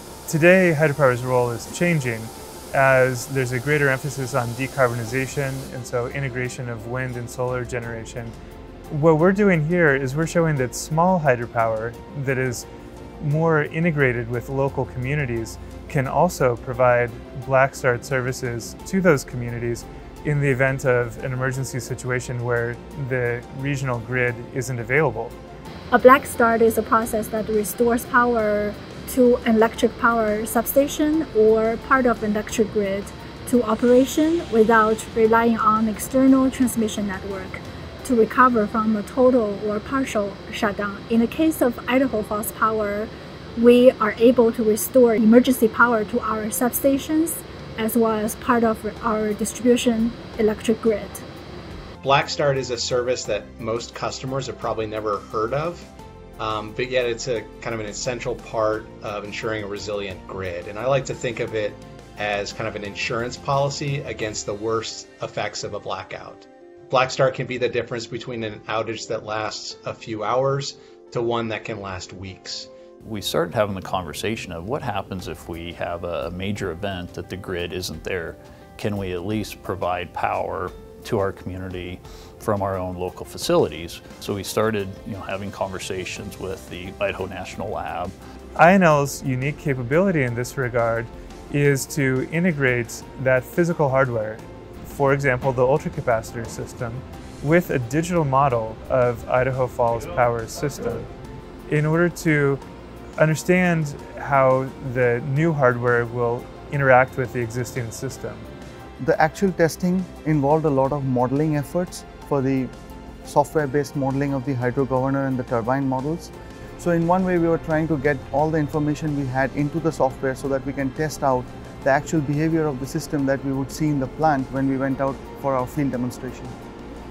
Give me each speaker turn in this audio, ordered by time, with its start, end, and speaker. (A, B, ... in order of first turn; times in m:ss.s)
0:00.3-0:08.4 A
0:08.9-0:12.7 A
0:13.2-0:25.4 A
0:25.9-0:51.2 B
0:52.0-1:12.7 C
1:13.0-1:28.1 D
1:28.6-1:41.1 A
1:41.7-1:42.6 A
1:43.2-1:48.5 A
1:49.0-1:52.7 E
1:53.2-2:06.6 E